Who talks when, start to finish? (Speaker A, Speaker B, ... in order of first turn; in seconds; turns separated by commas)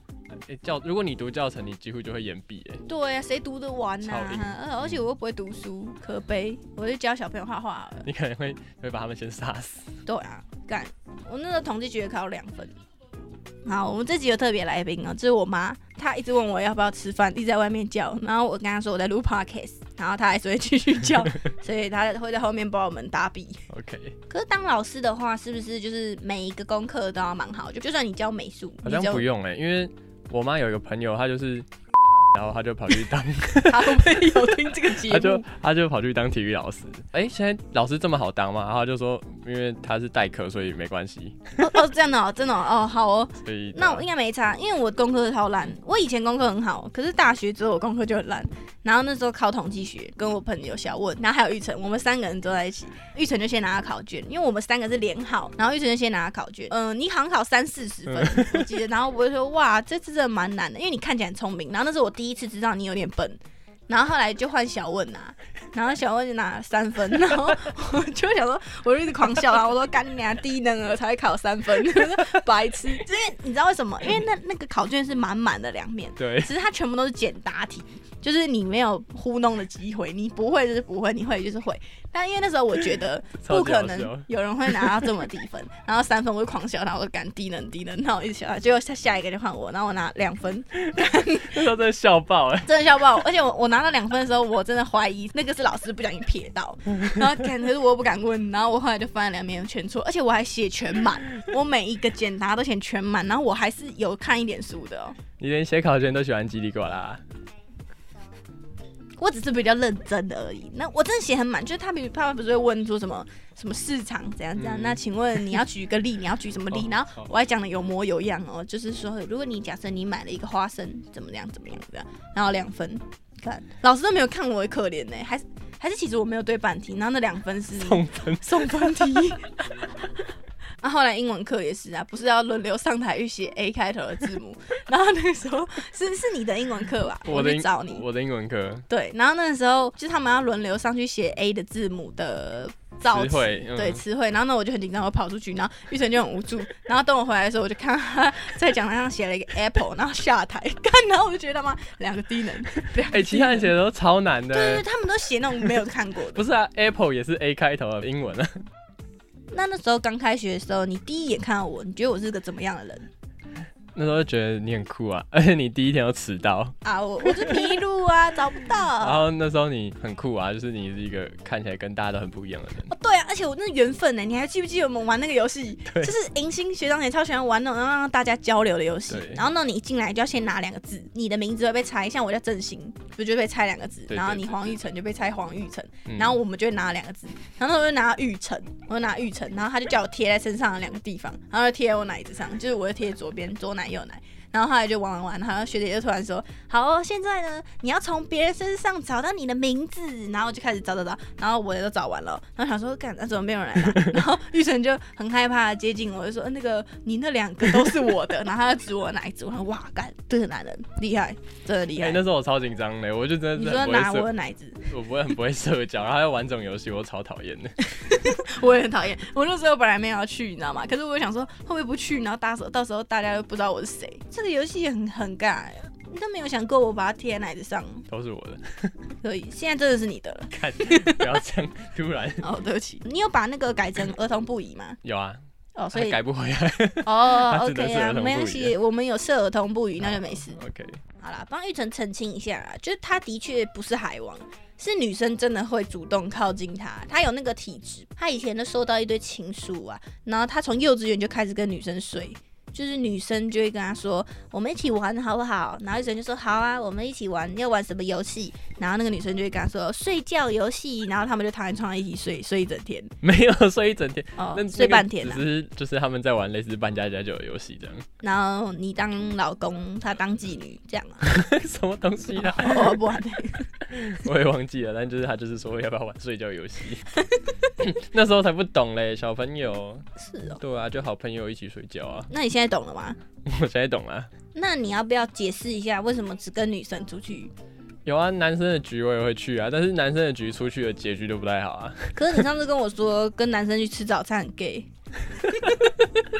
Speaker A: 0.4-2.8, Speaker B: 2.9-8.1, Speaker A: 4.0-5.0, Speaker A: 8.0-10.0, Speaker B: 10.1-12.8, Speaker B: 13.6-23.6, Speaker A: 23.7-24.2, Speaker B: 24.3-29.2, Speaker A: 28.8-31.7, Speaker A: 32.3-41.6, Speaker B: 33.6-35.5, Speaker B: 41.6-91.7, Speaker A: 43.4-44.1, Speaker A: 58.1-58.7, Speaker A: 76.2-76.5, Speaker A: 83.4-85.1, Speaker A: 91.0-92.7, Speaker B: 92.7-105.2, Speaker A: 105.4-107.2, Speaker B: 109.2-129.6, Speaker A: 114.5-115.0, Speaker A: 127.8-129.2, Speaker B: 130.8-138.0, Speaker A: 137.2-138.8, Speaker B: 138.9-153.7, Speaker A: 143.1-144.0, Speaker A: 153.1-154.8, Speaker B: 154.5-156.4, Speaker A: 156.3-158.6, Speaker B: 159.5-163.1, Speaker A: 163.9-167.7, Speaker B: 166.8-169.2, Speaker A: 169.0-172.9, Speaker B: 172.8-212.2, Speaker A: 175.9-176.1, Speaker A: 179.1-179.4, Speaker A: 184.1-184.8, Speaker A: 186.1-186.4, Speaker A: 212.0-214.3, Speaker B: 213.6-214.8, Speaker A: 214.9-217.8, Speaker B: 217.9-228.0, Speaker A: 228.1-229.0, Speaker B: 229.2-231.3, Speaker A: 230.5-232.5, Speaker B: 232.4-235.0, Speaker A: 235.0-235.4, Speaker B: 235.8-236.2, Speaker A: 235.9-238.7, Speaker B: 237.0-240.6, Speaker A: 240.0-241.0, Speaker B: 241.2-263.1, Speaker A: 263.2-268.0, Speaker B: 264.4-265.4, Speaker B: 268.2-271.3, Speaker A: 271.2-273.0, Speaker B: 272.4-273.6, Speaker A: 273.8-277.1, Speaker A: 277.8-282.3, Speaker B: 280.2-280.6, Speaker B: 282.3-283.2, Speaker A: 283.4-284.3, Speaker B: 284.5-287.5, Speaker A: 288.0-292.4, Speaker B: 292.1-294.9